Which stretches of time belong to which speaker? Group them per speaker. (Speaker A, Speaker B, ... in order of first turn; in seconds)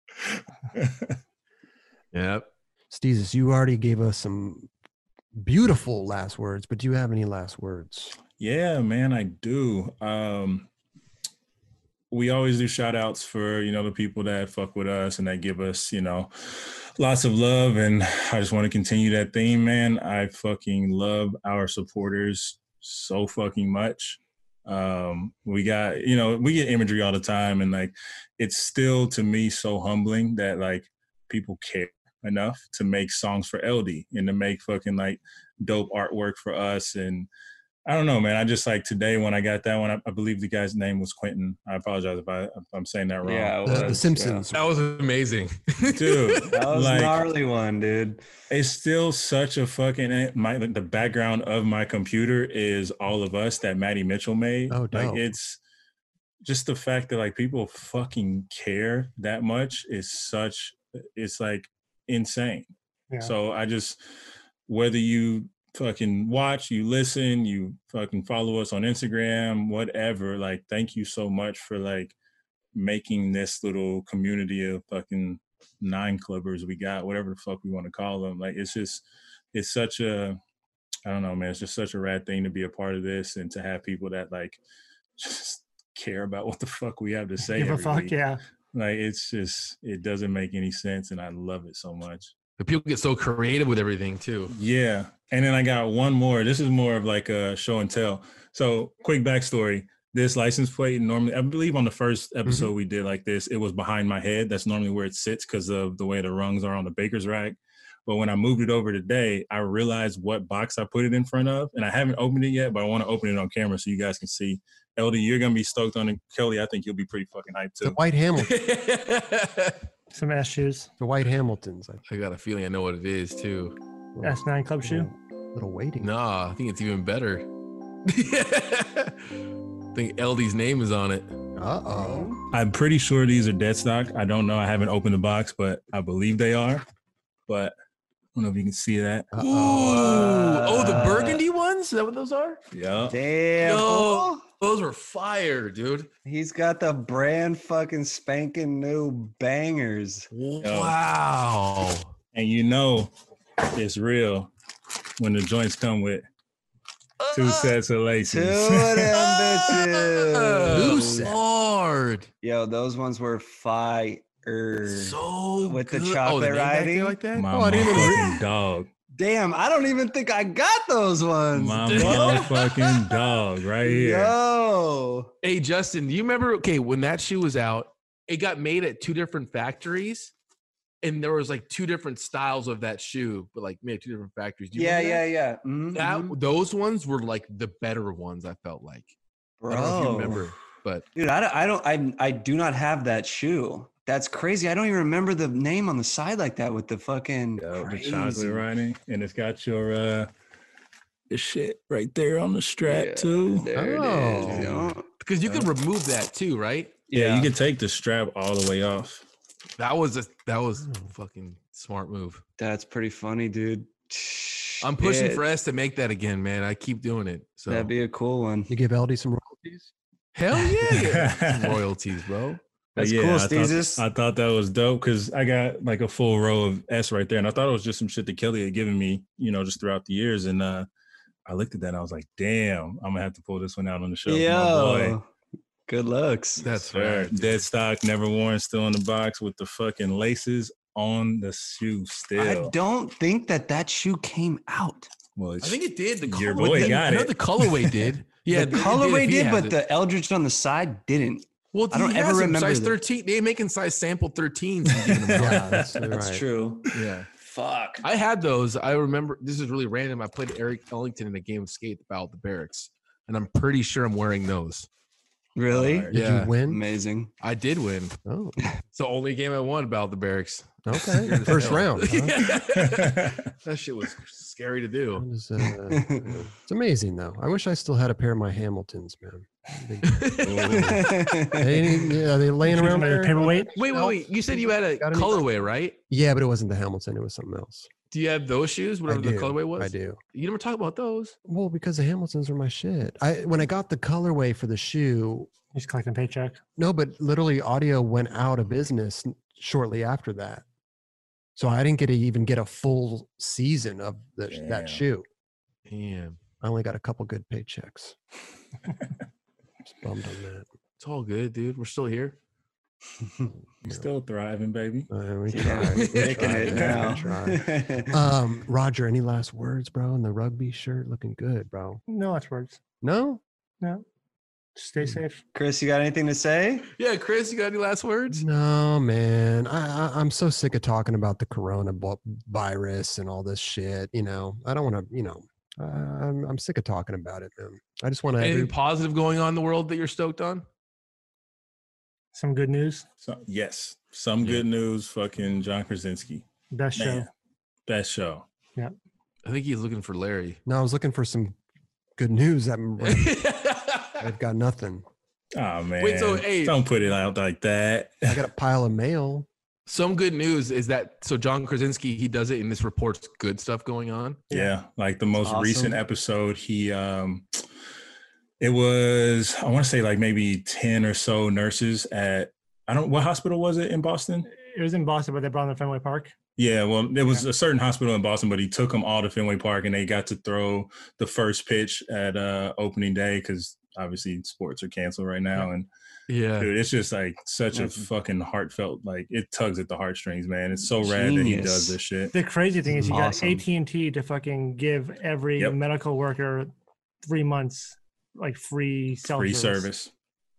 Speaker A: 0.2-1.1, 8.4-10.7, 12.1-37.3, 37.9-44.0, 45.9-47.3, 48.5-55.6, 56.4-62.7, 63.2-64.0, 64.7-72.1, 72.7-80.4, 81.0-84.6, 85.2-88.1, 88.7-92.3, 94.5-118.0, 132.5-136.8, 137.5-137.7, 138.3-139.3, 142.7-143.2, 150.6-150.9, 152.3-153.1, 153.7-154.5, 155.2-156.2, 157.3-159.2, 167.3-168.9, 171.5-174.3, 197.6-200.3, 201.3-203.7, 204.4-205.7, 207.1-209.2, 220.8-221.8, 223.0-230.9, 231.4-235.2, 236.9-242.7, 245.3-247.6, 265.7-266.1, 272.6-273.5, 280.4-281.1, 304.5-305.0, 313.8-315.1, 343.2-346.4, 346.9-347.3, 347.9-348.4, 355.6-358.4, 364.5-367.6, 368.6-374.5, 376.6-385.9, 386.6-392.3, 399.3-400.1
Speaker B: 2.1-2.5, 44.5-46.5, 92.6-94.5, 118.4-119.8, 122.1-123.8, 126.0-127.5, 128.0-129.2, 129.9-131.3, 139.4-142.6, 143.6-146.1, 150.3-152.1, 157.2-157.7, 159.2-162.3, 164.8-168.1, 171.8-172.7, 175.4-180.3, 181.0-185.2, 185.9-189.1, 189.7-191.0, 205.2-207.0, 209.8-212.4, 214.8-217.9, 220.3-222.6, 236.6-237.6, 245.6-249.8, 251.7-255.9, 256.9-257.3, 258.0-264.9, 266.1-266.6, 267.4-268.2, 268.9-275.2, 280.0-280.8, 283.7-286.0, 288.1-291.3, 305.9-306.4, 311.0-312.4, 315.7-317.2, 327.0-328.4, 338.4-340.6, 349.4-350.6, 353.0-354.2, 356.0-356.8, 359.9-364.4, 386.3-386.7
Speaker C: 2.9-4.7, 5.3-8.2, 43.6-44.6, 54.7-55.3, 102.5-102.7, 117.8-118.5, 121.0-122.0, 124.1-126.1, 131.6-132.3, 139.3-140.3, 160.7-161.4, 167.5-168.4, 189.7-190.4, 203.7-204.7, 210.8-211.1, 218.7-219.9, 255.3-256.4, 266.1-266.8, 268.2-268.6, 270.8-272.5, 275.1-280.4, 281.5-285.4, 286.1-287.9, 289.1-290.2, 291.4-295.5, 296.8-300.6, 301.6-305.2, 306.6-308.2, 309.8-310.6, 315.1-322.0, 323.0-323.4, 328.3-338.7, 350.6-351.6, 352.2-353.4, 354.2-355.0, 358.3-359.5
Speaker D: 43.2-44.5, 46.5-48.2, 131.9-132.4, 139.7-141.4, 143.1-144.4, 146.2-150.3, 158.3-161.3, 162.4-167.2, 169.2-173.0, 173.8-175.3, 184.7-186.4, 189.6-190.5, 191.1-198.6, 202.8-205.1, 207.1-207.5, 212.6-215.4, 217.7-218.7, 222.9-224.0, 234.3-235.3, 235.9-236.6, 242.3-245.1, 246.6-247.0, 248.5-253.0, 255.2-255.6, 256.1-258.1, 265.6-266.1, 266.6-267.3, 271.3-271.8, 275.9-276.4, 280.6-282.0, 315.5-318.2, 325.5-326.9, 365.4-366.0, 387.7-388.1, 391.0-392.0, 392.9-393.6
Speaker E: 87.5-88.4, 120.1-120.9, 124.2-125.1, 282.7-283.7, 295.7-296.6, 322.1-322.8, 324.8-325.4, 342.3-343.0, 346.7-347.3, 374.5-376.3, 392.3-396.7, 397.2-399.9